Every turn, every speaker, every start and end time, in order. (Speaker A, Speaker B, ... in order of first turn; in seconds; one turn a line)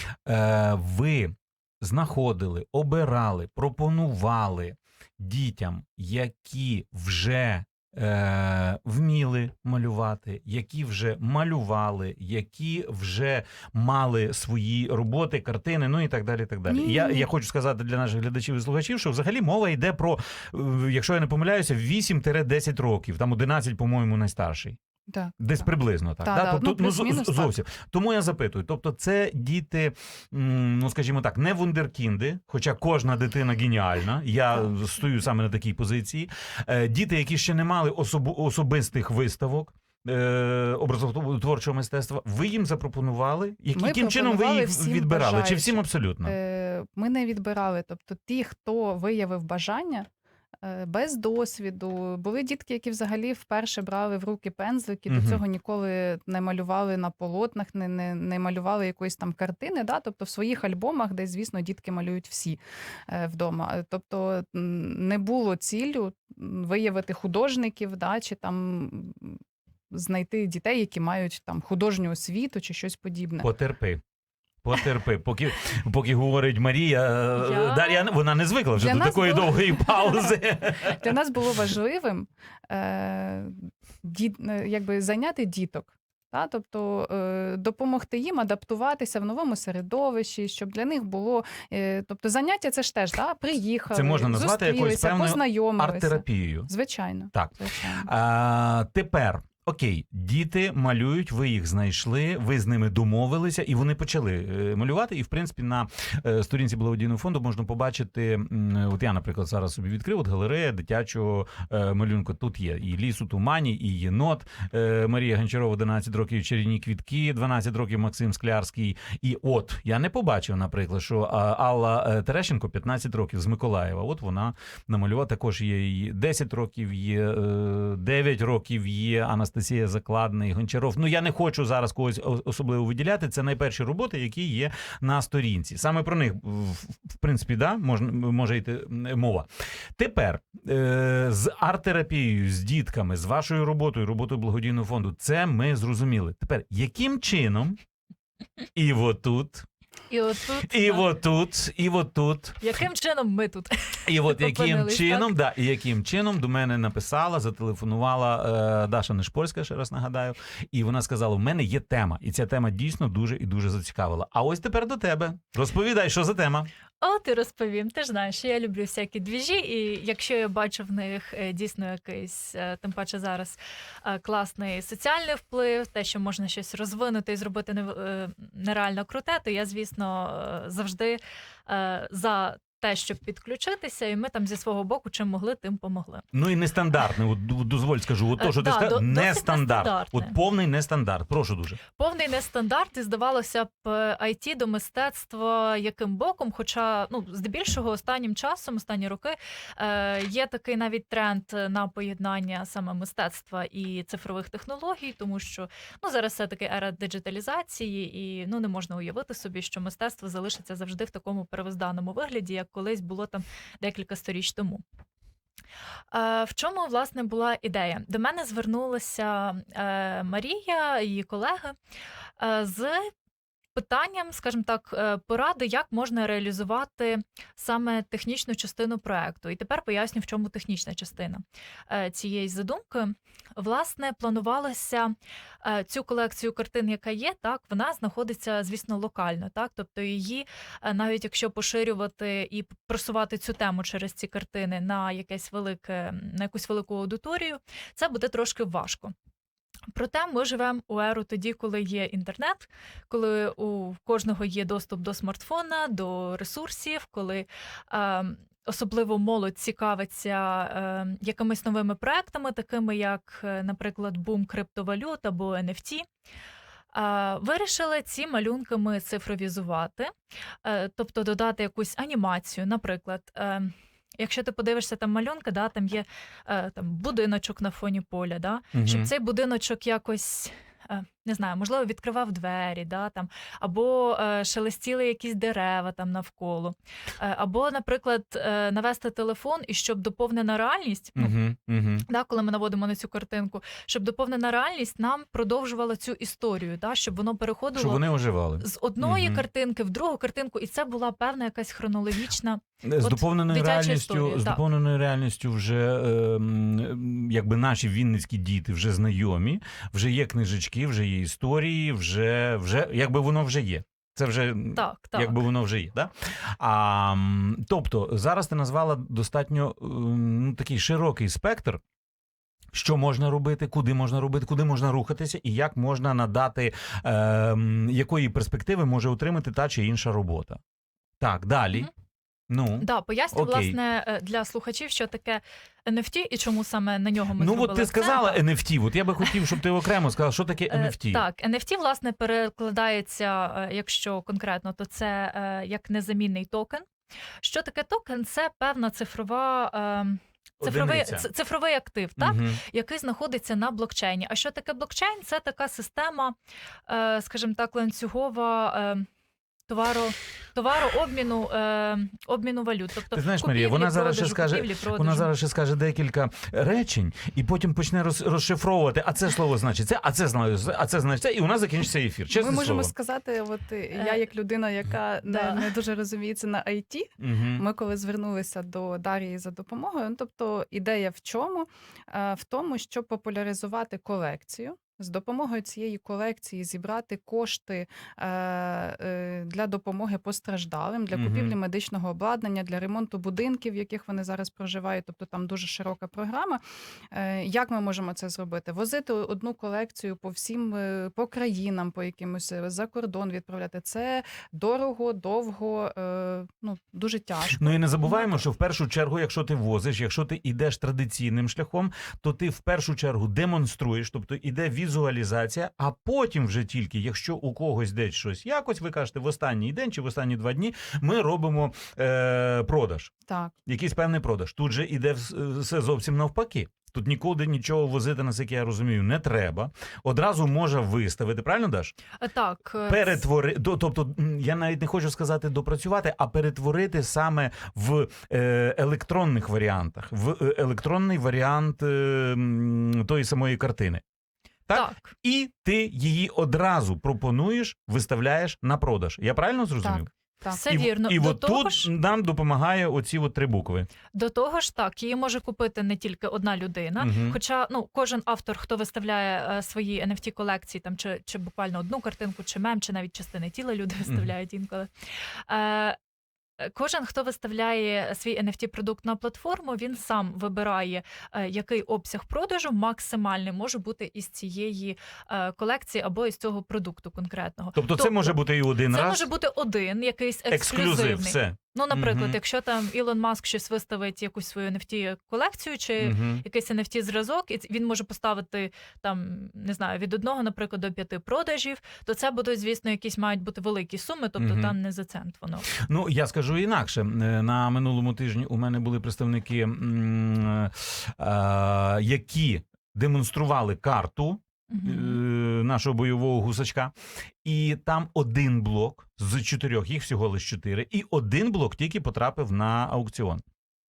Speaker A: 0.2-24.8
Speaker B: 16.7-17.3
Speaker B: 25.1-25.7
Speaker A: 25.4-46.4
Speaker B: 26.2-27.6
Speaker B: 43.8-50.1
Speaker B: 50.6-73.5
Speaker A: 55.1-55.4
Speaker A: 73.4-74.0
Speaker A: 74.6-81.0
Speaker C: 77.4-78.0
Speaker B: 78.7-98.1
Speaker A: 93.9-96.7
Speaker A: 97.3-147.8
Speaker A: 148.8-149.7
Speaker C: 150.1-151.1
Speaker A: 150.7-152.6
Speaker C: 152.6-155.3
Speaker A: 154.1-166.7
Speaker C: 167.0-186.2
Speaker A: 186.3-191.8
Speaker C: 188.4-190.3
Speaker C: 192.0-214.8
Speaker C: 216.1-221.8
Speaker C: 222.4-223.1
Speaker C: 223.7-249.1
Speaker C: 249.9-266.1
Speaker C: 266.9-270.1
Speaker C: 270.6-291.4
Speaker A: 278.7-279.1
Speaker A: 291.1-292.1
Speaker C: 292.1-304.6
Speaker A: 297.8-299.4
Speaker A: 302.8-321.8
Speaker C: 314.8-315.4
Speaker A: 322.7-330.6
Speaker A: 331.2-331.9
Speaker A: 332.5-333.8
Speaker C: 332.8-338.4
Speaker A: 337.4-341.2
Speaker C: 340.7-346.9
Speaker C: 347.4-356.4
Speaker A: 350.6-351.3
Speaker A: 352.2-352.6
Speaker C: 356.9-359.1
Speaker C: 359.7-365.3
Speaker A: 363.1-372.9
Speaker B: 372.3-396.6
Speaker C: 374.0-374.2
Speaker C: 375.2-375.7
Speaker A: 377.2-377.6
Speaker A: 391.1-391.6
Speaker B: 397.1-408.2
Speaker A: 407.5-423.1
Speaker B: 423.3-423.5
Speaker A: 423.6-431.9
Speaker C: 432.2-433.2
Speaker A: 432.9-444.0
Speaker A: 444.7-450.1
Speaker C: 444.7-445.1
Speaker B: 449.8-450.6
Speaker C: 450.5-451.9
Speaker A: 450.7-453.9
Speaker C: 454.1-466.0
Speaker A: 457.0-457.4
Speaker C: 466.6-495.7
Speaker A: 477.8-479.3
Speaker A: 480.5-482.4
Speaker A: 486.0-486.4
Speaker A: 494.4-494.8
Speaker A: 495.8-506.9
Speaker C: 504.7-505.2
Speaker A: 507.4-513.4